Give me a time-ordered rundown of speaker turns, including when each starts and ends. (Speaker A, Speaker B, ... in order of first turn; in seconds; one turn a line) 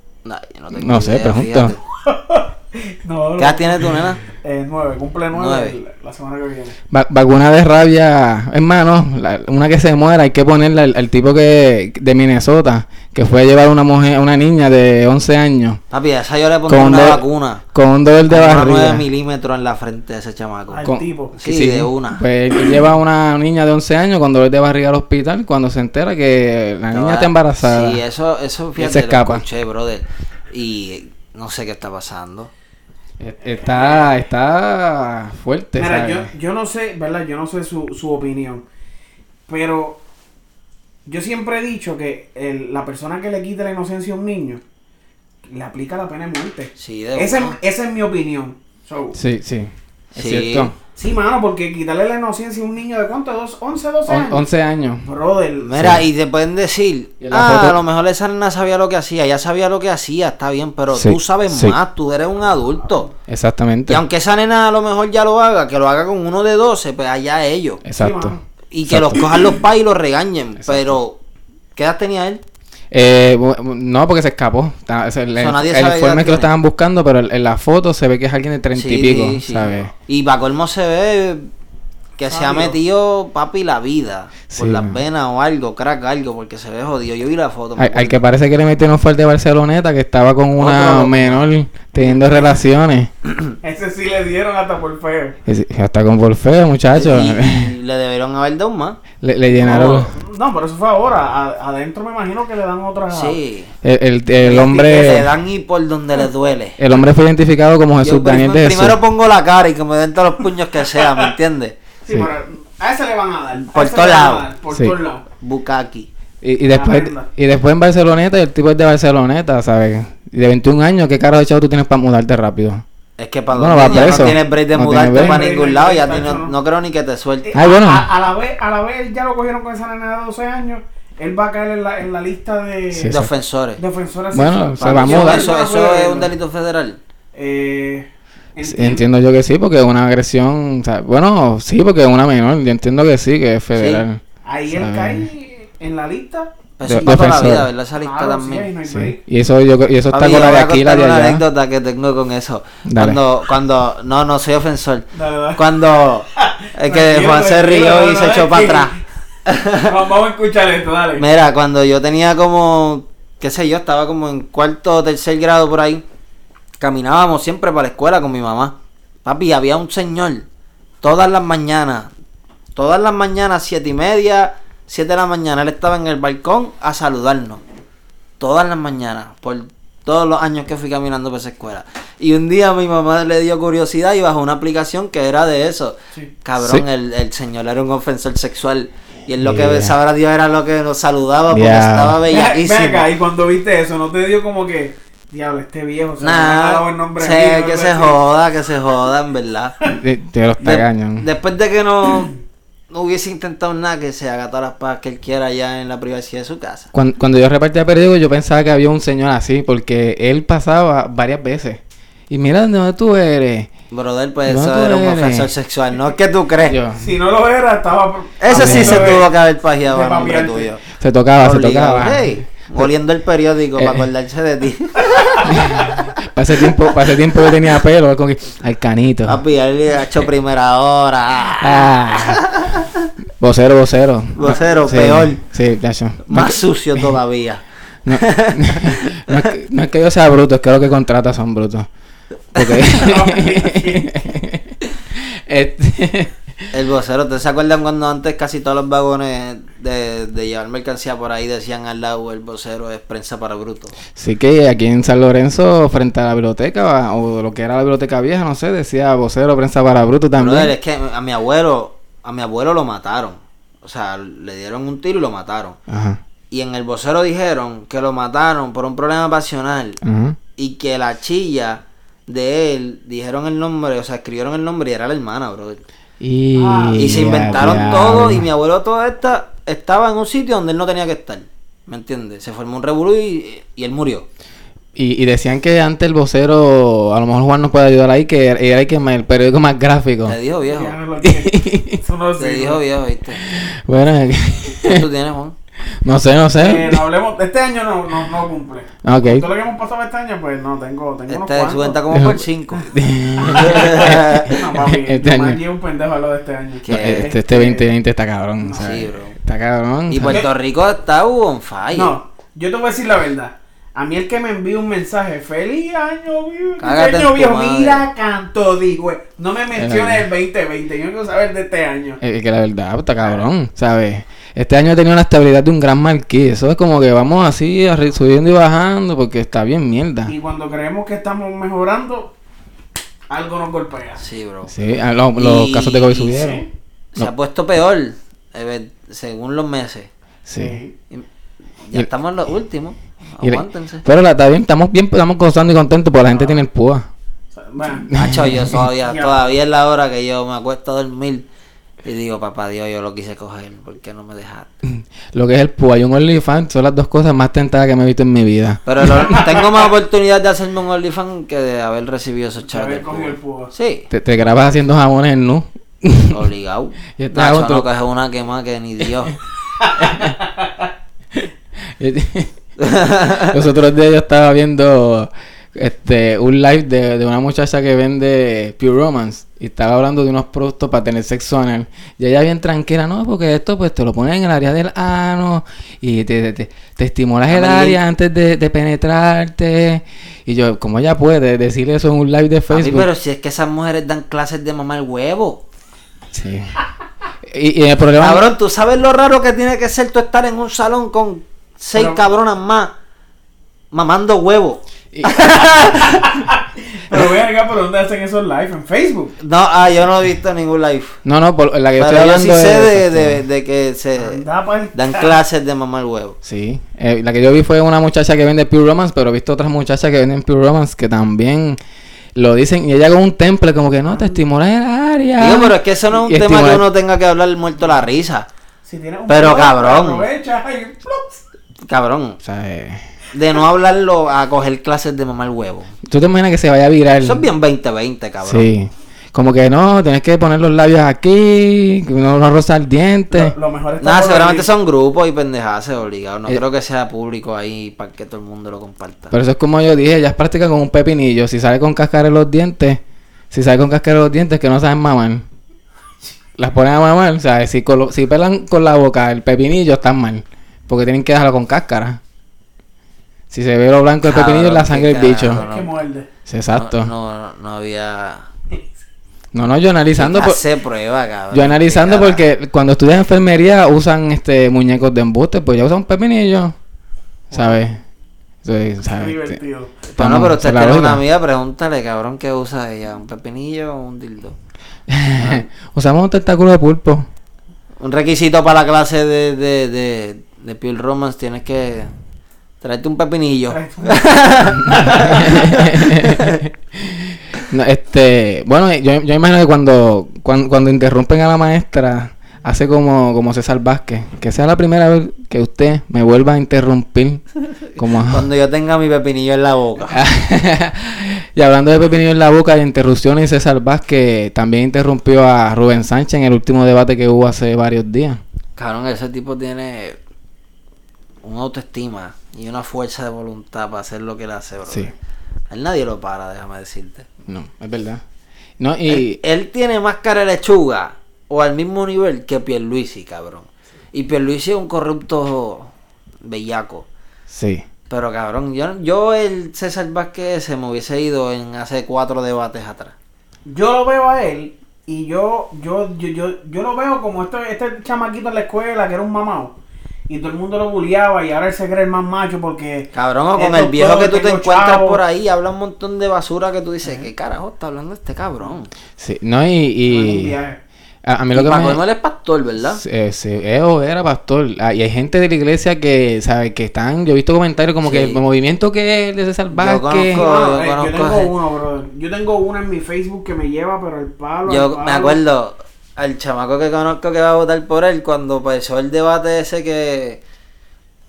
Speaker A: 0.2-1.8
Speaker B: 0.7-1.7
Speaker C: 2.0-6.8
Speaker A: 3.4-4.2
Speaker A: 5.3-5.8
Speaker B: 6.9-15.8
Speaker A: 15.9-17.6
Speaker B: 16.7-17.2
Speaker B: 17.7-19.0
Speaker A: 18.3-22.2
Speaker C: 20.7-21.4
Speaker B: 20.8-28.0
Speaker A: 26.9-32.5
Speaker B: 28.8-29.4
Speaker B: 33.2-36.3
Speaker C: 33.6-34.0
Speaker C: 35.7-38.6
Speaker C: 39.5-40.0
Speaker C: 41.0-44.6
Speaker C: 45.5-49.2
Speaker A: 46.8-47.6
Speaker B: 49.1-50.7
Speaker A: 50.1-50.7
Speaker C: 50.9-54.5
Speaker B: 54.1-55.0
Speaker C: 55.0-55.7
Speaker A: 55.6-63.1
Speaker B: 55.8-56.0
Speaker B: 57.2-57.8
Speaker B: 60.9-61.8
Speaker B: 63.3-64.0
Speaker A: 63.9-67.8
Speaker B: 67.8-69.2
Speaker C: 68.0-68.4
Speaker A: 68.7-71.2
Speaker B: 70.6-71.0
Speaker A: 71.8-72.4
Speaker B: 72.9-79.9
Speaker A: 75.4-76.5
Speaker A: 78.7-81.5
Speaker A: 82.2-88.2
Speaker C: 82.3-82.8
Speaker B: 84.5-85.0
Speaker B: 87.8-93.1
Speaker A: 90.6-91.4
Speaker C: 92.0-92.6
Speaker C: 93.6-95.3
Speaker B: 95.5-97.7
Speaker A: 96.9-99.0
Speaker B: 99.2-100.1
Speaker A: 99.5-100.1
Speaker C: 99.6-103.4
Speaker A: 103.1-103.7
Speaker B: 103.8-105.3
Speaker A: 104.4-106.8
Speaker B: 106.8-109.0
Speaker A: 108.0-111.7
Speaker C: 110.9-111.3
Speaker C: 112.0-115.2
Speaker A: 113.7-114.5
Speaker A: 115.4-116.1
Speaker B: 116.4-122.8
Speaker C: 116.7-117.3
Speaker A: 123.2-127.5
Speaker B: 123.5-125.5
Speaker C: 123.8-126.5
Speaker C: 127.5-133.2
Speaker B: 127.5-128.1
Speaker B: 132.9-133.3
Speaker A: 133.1-133.8
Speaker C: 133.8-136.3
Speaker B: 134.3-135.5
Speaker A: 134.8-137.0
Speaker C: 137.3-139.1
Speaker B: 138.6-145.2
Speaker A: 143.8-144.0
Speaker C: 144.4-149.2
Speaker A: 146.8-148.7
Speaker B: 146.8-147.7
Speaker B: 148.9-151.4
Speaker A: 150.1-158.9
Speaker B: 152.8-153.2
Speaker C: 155.1-155.6
Speaker C: 156.3-158.9
Speaker A: 159.4-159.9
Speaker C: 159.8-161.2
Speaker A: 161.2-166.0
Speaker A: 166.8-170.4
Speaker A: 171.0-172.1
Speaker A: 172.8-177.6
Speaker A: 178.4-193.1
Speaker B: 186.6-186.8
Speaker B: 189.4-189.9
Speaker B: 191.5-192.2
Speaker C: 192.3-198.2
Speaker A: 196.2-199.8
Speaker B: 199.9-201.3
Speaker A: 200.6-202.3
Speaker A: 202.9-206.9
Speaker B: 206.9-213.7
Speaker A: 213.9-216.8
Speaker B: 214.5-215.5
Speaker B: 216.7-217.0
Speaker C: 216.9-219.3
Speaker A: 218.4-220.8
Speaker B: 218.5-219.2
Speaker C: 219.9-220.7
Speaker B: 220.9-222.9
Speaker A: 221.4-226.1
Speaker B: 223.8-224.0
Speaker C: 225.0-225.4
Speaker B: 225.4-229.4
Speaker A: 229.3-233.1
Speaker B: 231.6-232.4
Speaker B: 233.4-237.1
Speaker A: 234.3-235.4
Speaker A: 236.2-239.5
Speaker B: 238.1-241.9
Speaker B: 242.5-246.7
Speaker A: 242.6-242.9
Speaker C: 242.9-244.1
Speaker A: 246.7-254.0
Speaker B: 254.2-260.7
Speaker A: 260.4-265.8
Speaker B: 265.9-266.2
Speaker A: 266.5-270.0
Speaker B: 270.0-270.4
Speaker A: 270.6-275.8
Speaker B: 276.2-278.4
Speaker C: 276.5-277.8
Speaker A: 276.9-284.2
Speaker B: 284.9-290.4
Speaker A: 290.2-290.9
Speaker C: 290.7-292.8
Speaker B: 291.2-292.0
Speaker A: 292.4-293.4
Speaker B: 293.4-295.1
Speaker A: 294.8-295.5
Speaker B: 296.0-297.0
Speaker C: 296.6-302.0
Speaker B: 299.0-299.5
Speaker A: 301.3-302.9
Speaker B: 302.1-305.6
Speaker C: 303.4-307.9
Speaker A: 303.5-304.6
Speaker A: 306.8-307.3
Speaker B: 306.9-310.4
Speaker C: 308.6-309.1
Speaker A: 308.7-309.4
Speaker A: 310.1-312.1
Speaker C: 311.9-322.2
Speaker A: 316.8-318.0
Speaker B: 319.8-320.2
Speaker B: 322.2-330.3
Speaker C: 330.3-332.3
Speaker C: 333.3-334.2
Speaker A: 334.2-334.7
Speaker B: 334.7-336.6
Speaker A: 335.3-336.5
Speaker C: 336.3-336.7
Speaker A: 337.1-340.1
Speaker B: 340.4-340.8
Speaker C: 340.6-340.9
Speaker A: 341.8-344.0
Speaker B: 343.4-347.1
Speaker C: 346.3-346.6
Speaker C: 347.5-348.1
Speaker B: 348.0-348.9
Speaker A: 348.1-351.4
Speaker C: 349.0-349.4
Speaker A: 352.0-354.7
Speaker B: 354.8-359.4
Speaker A: 358.9-364.1
Speaker C: 359.1-359.8
Speaker C: 362.7-363.7
Speaker B: 364.1-366.4
Speaker A: 366.3-369.4
Speaker B: 367.2-367.9
Speaker C: 369.8-370.9
Speaker B: 370.0-370.3
Speaker B: 371.3-372.5
Speaker A: 372.8-373.6
Speaker B: 373.4-393.1
Speaker A: 387.5-388.0
Speaker A: 392.7-395.6
Speaker B: 396.3-396.7
Speaker B: 397.4-398.4
Speaker A: 398.2-402.9
Speaker C: 401.9-402.2
Speaker A: 403.9-406.2
Speaker B: 405.1-406.0
Speaker C: 406.0-409.3
Speaker A: 409.4-411.2
Speaker B: 411.2-413.4
Speaker A: 412.0-414.4
Speaker C: 414.2-415.4
Speaker A: 414.9-416.4
Speaker B: 416.4-421.8
Speaker B: 422.4-426.8
Speaker A: 425.4-428.4
Speaker C: 428.9-431.4
Speaker A: 429.3-430.2
Speaker A: 431.9-432.4
Speaker B: 432.4-433.1
Speaker A: 433.3-435.9
Speaker B: 436.1-437.5
Speaker A: 437.2-438.7
Speaker B: 438.4-443.5
Speaker C: 443.3-444.7
Speaker A: 444.0-449.3
Speaker B: 449.3-455.4
Speaker B: 456.6-462.2
Speaker B: 463.5-465.6
Speaker A: 464.2-465.9
Speaker C: 465.5-466.3
Speaker B: 466.5-467.1
Speaker A: 466.7-468.5
Speaker B: 469.5-470.6
Speaker A: 470.2-472.4
Speaker B: 471.5-476.7
Speaker B: 477.5-478.0
Speaker B: 478.6-479.6
Speaker C: 479.0-479.9
Speaker A: 480.1-484.5
Speaker B: 480.2-481.2
Speaker B: 485.1-487.2
Speaker A: 485.4-485.6
Speaker A: 488.0-492.1
Speaker A: 492.8-496.6
Speaker C: 493.7-494.3
Speaker B: 494.8-507.4
Speaker C: 494.9-495.6
Speaker B: 507.9-508.4
Speaker A: 508.0-510.2
Speaker B: 510.1-518.4
Speaker A: 518.8-520.2
Speaker A: 521.4-525.1
Speaker A: 525.7-527.3
Speaker B: 527.5-528.2
Speaker B: 528.8-529.4
Speaker A: 529.1-535.9
Speaker A: 536.4-537.0
Speaker B: 537.5-537.8
Speaker A: 538.1-543.1
Speaker C: 543.7-549.8
Speaker C: 550.3-555.2
Speaker A: 553.1-558.9
Speaker C: 557.0-557.3
Speaker B: 559.2-560.5
Speaker C: 560.1-560.8
Speaker B: 561.2-562.0
Speaker A: 561.5-563.0
Speaker B: 562.9-570.4
Speaker A: 568.0-568.4
Speaker A: 569.7-571.5
Speaker C: 570.3-575.4
Speaker A: 574.7-580.4